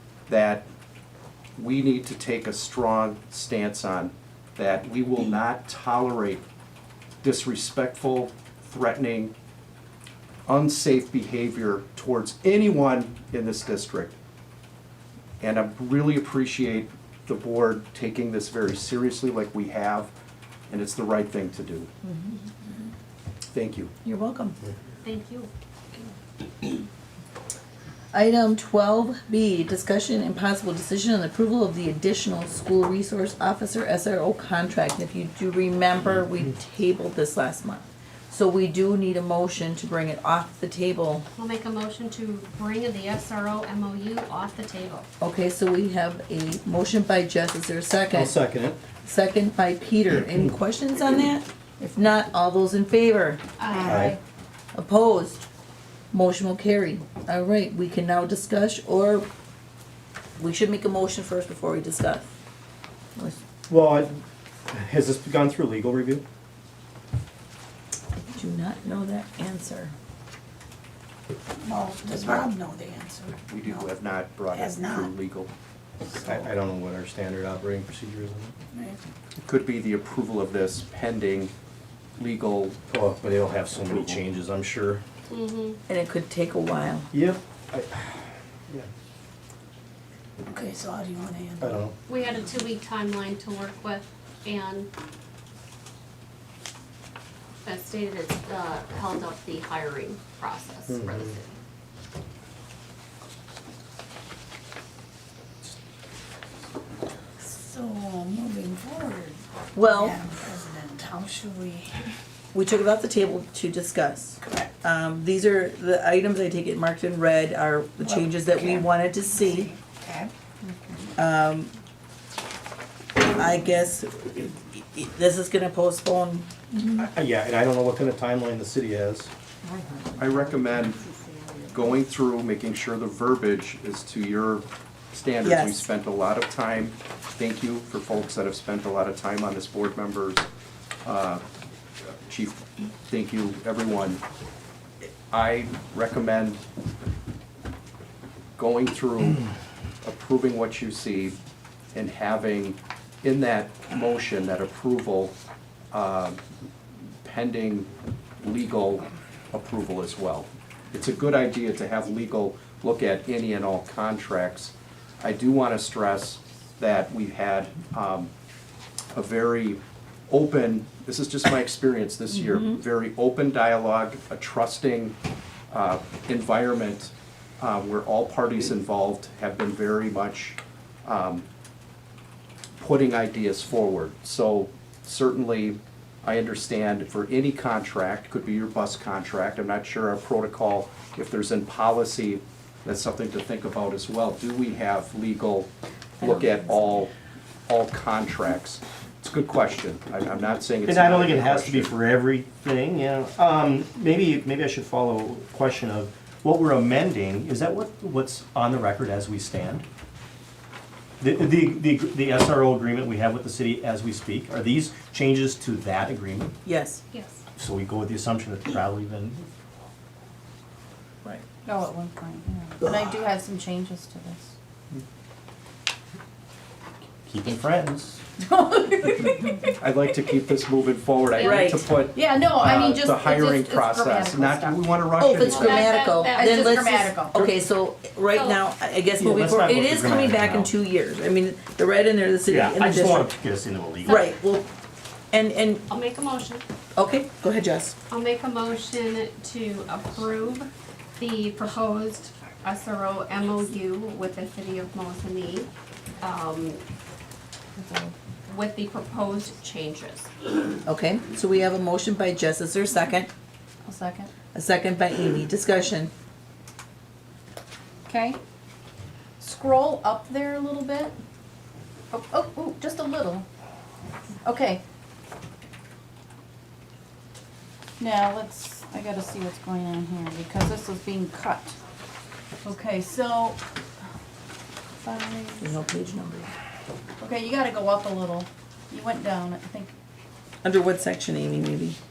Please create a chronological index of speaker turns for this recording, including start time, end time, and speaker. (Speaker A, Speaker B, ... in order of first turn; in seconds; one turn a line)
Speaker A: 0.3-0.7
Speaker A: 1.6-6.4
Speaker A: 7.2-9.3
Speaker A: 10.4-14.2
Speaker A: 15.4-20.1
Speaker A: 20.7-21.9
Speaker B: 22.0-22.7
Speaker A: 23.5-23.9
Speaker B: 24.0-24.6
Speaker C: 25.0-25.5
Speaker B: 28.1-41.2
Speaker C: 41.4-45.1
Speaker B: 45.2-48.4
Speaker D: 48.1-48.8
Speaker B: 49.0-53.4
Speaker C: 53.6-54.0
Speaker E: 53.6-54.2
Speaker D: 53.9-54.1
Speaker B: 54.7-55.5
Speaker B: 56.1-59.3
Speaker B: 60.4-62.3
Speaker D: 63.7-66.2
Speaker B: 68.2-69.9
Speaker F: 71.6-73.9
Speaker A: 73.5-75.5
Speaker F: 74.5-75.1
Speaker D: 76.2-78.5
Speaker F: 78.7-79.0
Speaker A: 79.4-81.5
Speaker A: 82.2-82.8
Speaker D: 82.9-85.0
Speaker A: 83.9-84.2
Speaker C: 85.3-85.8
Speaker B: 85.9-87.1
Speaker D: 87.1-88.9
Speaker F: 90.5-91.9
Speaker D: 91.6-91.9
Speaker C: 92.1-94.9
Speaker C: 97.6-101.5
Speaker D: 100.9-101.2
Speaker F: 107.4-112.1
Speaker B: 109.7-110.2
Speaker B: 112.5-119.7
Speaker F: 114.4-114.7
Speaker F: 118.0-120.3
Speaker E: 120.6-121.1
Speaker B: 121.2-121.7
Speaker B: 123.2-127.0
Speaker D: 127.0-129.3
Speaker B: 129.6-131.7
Speaker A: 130.2-131.0
Speaker A: 131.7-140.4
Speaker B: 135.4-135.9
Speaker A: 141.0-141.4
Speaker A: 142.1-144.2
Speaker A: 145.3-146.6
Speaker A: 148.6-149.4
Speaker A: 150.0-151.4
Speaker A: 151.9-155.3
Speaker A: 155.9-156.4
Speaker A: 157.2-168.3
Speaker A: 169.1-175.2
Speaker B: 172.4-172.7
Speaker A: 175.7-181.4
Speaker A: 182.8-197.1
Speaker B: 196.2-196.8
Speaker A: 197.7-201.9
Speaker D: 200.8-209.8
Speaker D: 211.2-216.5
Speaker B: 216.6-217.0
Speaker C: 217.1-217.4
Speaker D: 217.6-219.5
Speaker E: 221.6-224.5
Speaker D: 227.2-228.2
Speaker E: 228.4-229.8
Speaker A: 229.8-235.8
Speaker B: 231.4-231.9
Speaker E: 231.5-237.4
Speaker B: 235.2-243.3
Speaker C: 235.4-236.8
Speaker C: 238.3-238.6
Speaker D: 239.2-240.7
Speaker D: 242.5-244.2
Speaker B: 244.1-244.7
Speaker B: 245.3-245.8
Speaker C: 245.9-246.6
Speaker B: 246.9-247.9
Speaker C: 248.1-256.8
Speaker E: 257.8-258.1
Speaker C: 258.5-260.3
Speaker B: 260.8-263.3
Speaker E: 263.8-264.3
Speaker B: 264.4-266.1
Speaker E: 268.1-268.4
Speaker E: 269.4-271.1
Speaker E: 272.1-273.4
Speaker E: 274.4-274.8
Speaker E: 278.0-281.8
Speaker E: 282.6-283.6
Speaker E: 285.0-285.8
Speaker B: 285.6-286.5
Speaker E: 287.2-289.9
Speaker B: 290.6-292.0